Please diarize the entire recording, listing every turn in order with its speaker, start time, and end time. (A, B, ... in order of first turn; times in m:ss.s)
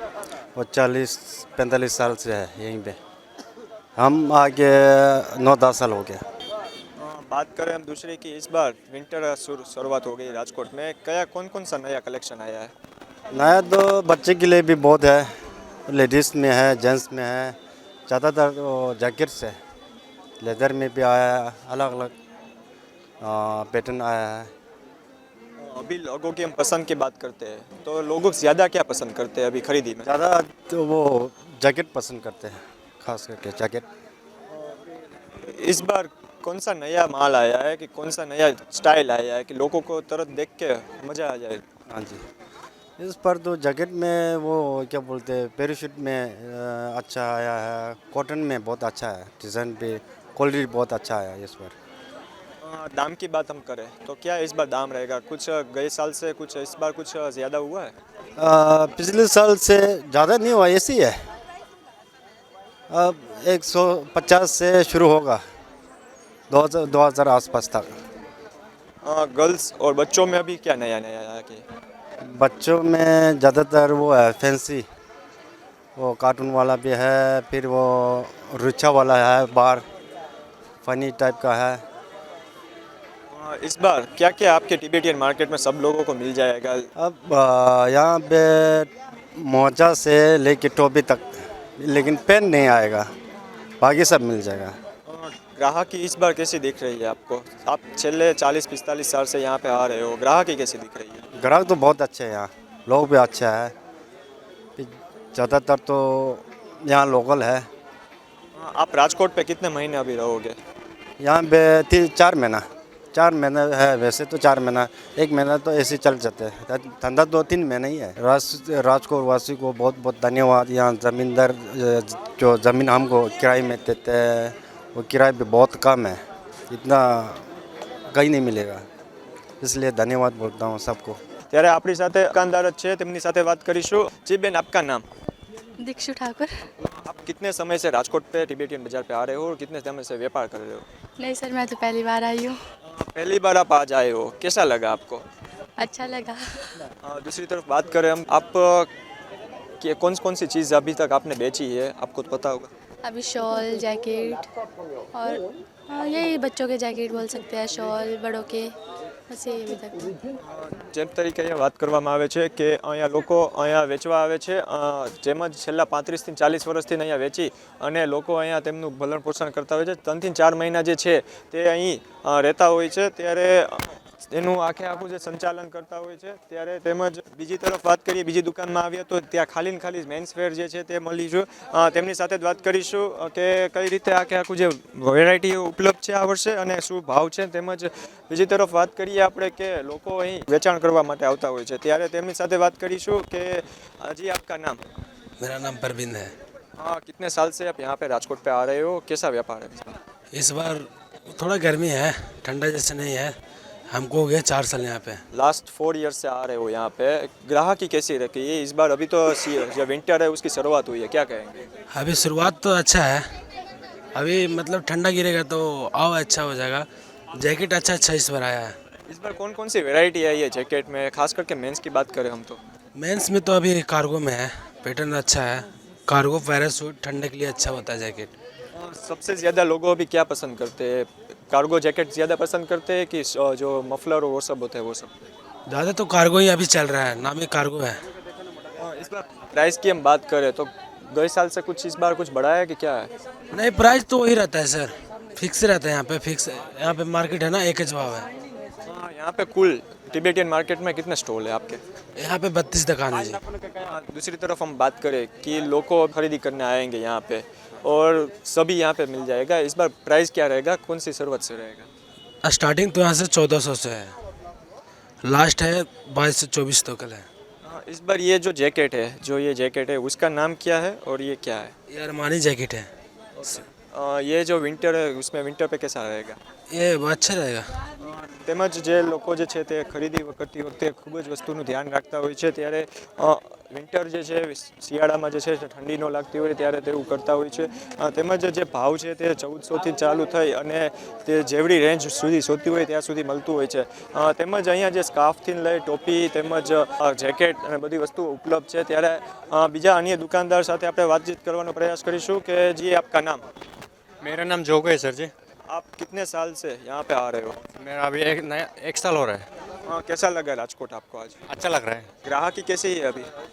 0:00.6-0:03.0 A
0:04.0-0:06.2 A
0:07.0-0:12.7 B
0:13.3-0:15.3 A
0:15.9-0:17.6 A
0:18.1-0:19.6 A
0:20.4-0:22.1 A
0:23.2-0:24.5 A
0:25.6-0:30.1 B
0:30.1-0:33.8 A
0:34.5-0:34.8 B
0:35.5-0:41.6 B
0:41.9-0:42.2 A
0:43.0-0:51.8 A
0:52.6-0:57.9 B
0:58.4-1:01.2 A
1:02.9-1:05.4 A
1:06.5-1:07.9 A
1:09.0-1:11.6 B
1:12.2-1:14.8 A
1:16.0-1:19.8 A
1:20.8-1:21.8 A
1:23.3-1:26.9 B
1:27.0-1:33.1 A
1:33.8-1:34.8 A
1:35.1-1:41.2 B
1:41.4-1:43.7 A
1:44.8-1:47.7 A
1:48.6-1:50.6 B
1:51.2-1:52.6 A
1:53.1-2:06.2 A
2:06.7-2:07.4 A
2:08.1-2:08.8 A
2:09.6-2:11.2 A
2:11.5-2:15.0 B
2:15.8-2:16.6 C
2:16.8-2:20.9 B
2:21.2-2:22.6 C
2:22.8-2:25.2 B
2:25.8-2:26.8 C
2:27.0-2:28.9 B
2:29.8-2:32.7 B
2:33.0-2:34.5 C
2:35.1-2:38.7 C
2:39.3-2:40.1 C
2:40.4-3:14.8 B
3:15.4-3:16.4 D
3:16.8-3:20.0 B
3:20.3-3:23.4 D
3:23.9-3:25.2 D
3:25.3-3:31.6 B
3:31.9-3:33.3 D
3:34.2-3:38.8 D
3:39.1-3:42.6 B
3:43.0-3:48.3 D
3:48.7-3:55.1 B
3:55.7-3:58.0 D
3:58.8-4:03.1 B
4:03.5-4:08.3 D
4:08.8-4:11.8 B
4:12.2-4:13.4 D
4:13.8-4:21.9 B
4:22.4-4:24.2 D
4:25.2-4:27.3 D
4:27.6-4:31.7 B
4:31.9-4:32.9 D
4:33.4-4:36.4 B
4:36.7-4:37.8 D
4:38.0-5:03.4 B
5:04.2-5:05.3 E
5:05.7-5:07.6 B
5:07.8-5:09.5 E
5:09.9-5:11.4 B
5:11.5-5:12.1 E
5:12.2-5:13.3 B